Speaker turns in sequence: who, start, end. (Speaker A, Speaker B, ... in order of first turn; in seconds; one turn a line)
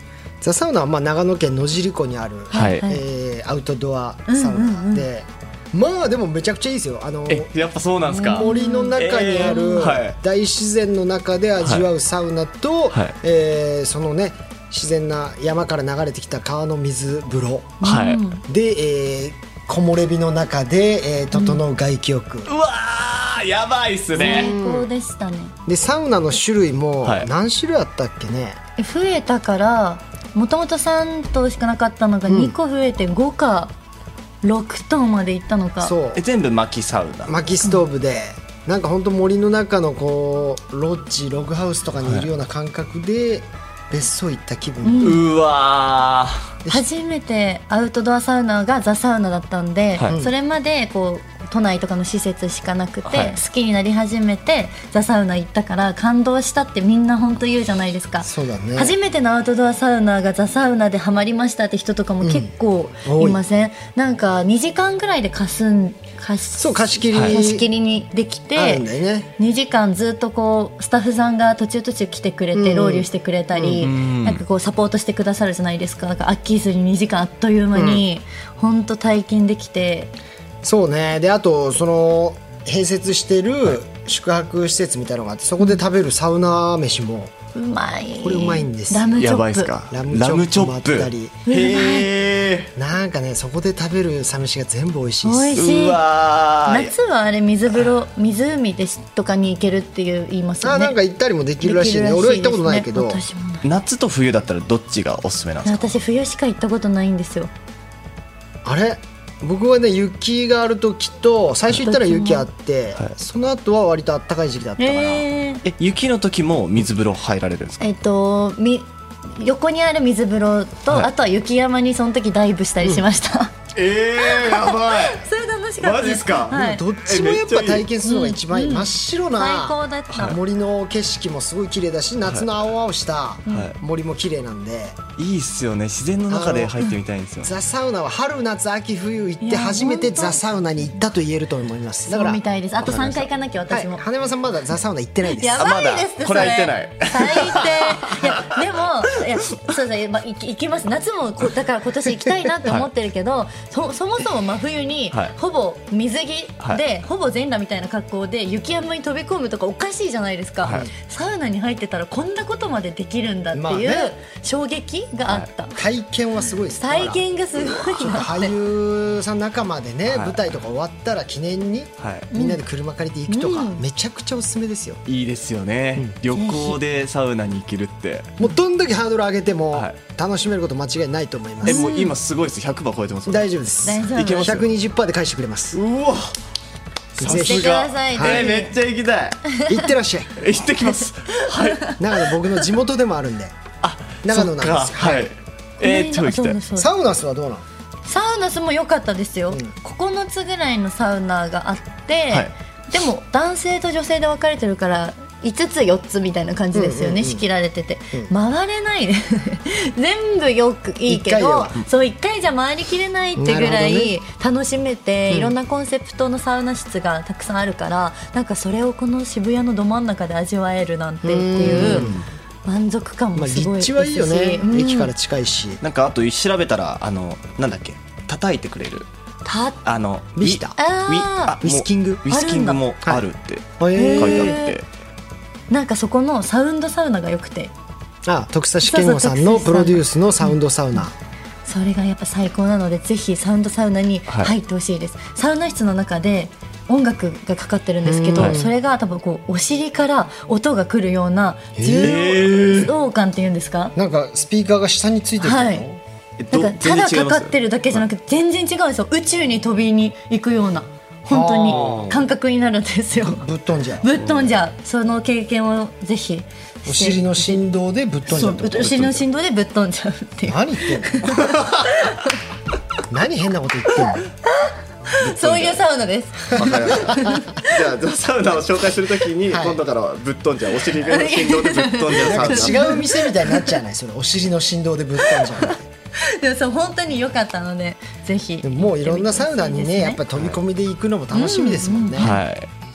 Speaker A: 0.4-7.5
Speaker B: 2.5-3.0
Speaker C: 2.5-2.8
Speaker B: 4.3-5.1
Speaker C: 7.3-10.2
Speaker B: 8.1-9.9
Speaker A: 8.3-17.8
Speaker B: 17.8-18.4
Speaker C: 17.8-18.2
Speaker A: 18.4-22.5
Speaker B: 21.3-21.6
Speaker C: 22.5-24.6
Speaker A: 24.2-24.9
Speaker B: 24.2-25.5
Speaker A: 25.7-28.6
Speaker B: 28.8-33.7
Speaker A: 32.3-32.5
Speaker B: 34.4-36.0
Speaker A: 35.8-36.2
Speaker C: 36.1-37.4
Speaker A: 37.3-45.2
Speaker B: 44.8-45.2
Speaker C: 45.0-46.5
Speaker B: 46.7-68.9
Speaker C: 53.1-53.4
Speaker A: 58.2-58.9
Speaker A: 62.2-62.5
Speaker A: 63.0-63.4
Speaker A: 66.6-67.7
Speaker C: 67.1-67.4
Speaker A: 68.5-69.3
Speaker B: 69.4-80.1
Speaker A: 72.5-73.8
Speaker C: 73.8-74.4
Speaker A: 77.8-78.0
Speaker A: 80.6-87.3
Speaker B: 87.5-89.7
Speaker A: 88.2-89.3
Speaker C: 89.2-92.7
Speaker A: 89.9-91.4
Speaker B: 91.5-92.1
Speaker A: 92.8-95.6
Speaker B: 95.2-96.0
Speaker C: 95.6-96.9
Speaker B: 96.7-101.0
Speaker A: 100.6-103.2
Speaker B: 101.6-103.7
Speaker C: 103.6-105.9
Speaker B: 105.7-107.5
Speaker A: 108.7-115.3
Speaker B: 111.7-112.5
Speaker B: 114.8-115.7
Speaker C: 115.7-117.8
Speaker B: 117.8-123.5
Speaker C: 123.8-125.2
Speaker B: 124.2-126.8
Speaker C: 125.8-127.9
Speaker A: 126.5-135.0
Speaker B: 128.0-130.4
Speaker C: 130.1-130.4
Speaker B: 133.5-133.7
Speaker C: 133.5-133.8
Speaker C: 135.2-137.5
Speaker A: 136.3-136.8
Speaker A: 137.4-143.1
Speaker B: 139.4-140.9
Speaker B: 142.1-144.0
Speaker C: 142.8-143.3
Speaker A: 143.7-145.7
Speaker B: 145.3-165.8
Speaker C: 145.6-148.4
Speaker A: 163.5-164.1
Speaker A: 165.7-175.0
Speaker B: 166.8-168.5
Speaker C: 170.1-170.4
Speaker C: 172.0-172.3
Speaker B: 172.3-172.6
Speaker B: 173.3-173.8
Speaker C: 175.1-178.3
Speaker B: 176.3-176.8
Speaker A: 178.4-181.9
Speaker B: 181.6-182.2
Speaker C: 181.6-183.5
Speaker A: 183.3-185.8
Speaker B: 183.8-184.6
Speaker C: 184.1-184.7
Speaker C: 185.8-186.3
Speaker C: 187.2-189.4
Speaker A: 187.2-188.5
Speaker B: 187.2-188.8
Speaker B: 189.5-189.8
Speaker A: 189.7-190.3
Speaker C: 190.4-192.0
Speaker B: 190.9-192.0
Speaker A: 192.0-193.6
Speaker C: 193.8-196.6
Speaker A: 194.2-195.3
Speaker B: 195.8-196.9
Speaker A: 196.8-197.6
Speaker B: 198.1-222.1
Speaker A: 206.7-207.4
Speaker A: 211.1-211.8
Speaker A: 213.4-214.1
Speaker A: 215.3-215.5
Speaker A: 221.2-222.2
Speaker C: 221.6-222.2
Speaker B: 222.7-225.1
Speaker A: 223.3-225.8
Speaker C: 225.8-229.1
Speaker B: 229.4-229.8
Speaker C: 229.8-234.8
Speaker A: 230.4-230.8
Speaker B: 230.8-231.6
Speaker A: 231.6-232.2
Speaker B: 232.3-232.8
Speaker A: 233.8-234.6
Speaker B: 233.9-234.8
Speaker B: 235.7-237.7
Speaker A: 238.2-241.1
Speaker B: 238.8-240.5
Speaker B: 241.7-253.9
Speaker A: 248.0-248.7
Speaker C: 248.4-248.6
Speaker A: 251.8-252.3
Speaker C: 252.0-252.9
Speaker A: 254.0-256.0
Speaker B: 255.4-255.8
Speaker C: 256.4-258.0
Speaker B: 256.5-263.5
Speaker A: 261.3-262.2
Speaker C: 261.7-262.1
Speaker A: 263.2-264.1
Speaker B: 264.0-267.6
Speaker A: 266.9-269.2
Speaker B: 268.3-272.3
Speaker A: 270.5-271.3
Speaker C: 271.4-271.8
Speaker A: 273.1-274.2
Speaker B: 274.6-277.7
Speaker C: 275.2-275.8
Speaker C: 276.5-283.0
Speaker A: 276.7-277.3
Speaker A: 279.5-279.8
Speaker B: 281.0-283.8
Speaker A: 282.1-285.9
Speaker B: 285.4-285.7
Speaker B: 286.2-290.2
Speaker A: 288.6-292.4
Speaker B: 291.3-292.4
Speaker C: 292.2-292.7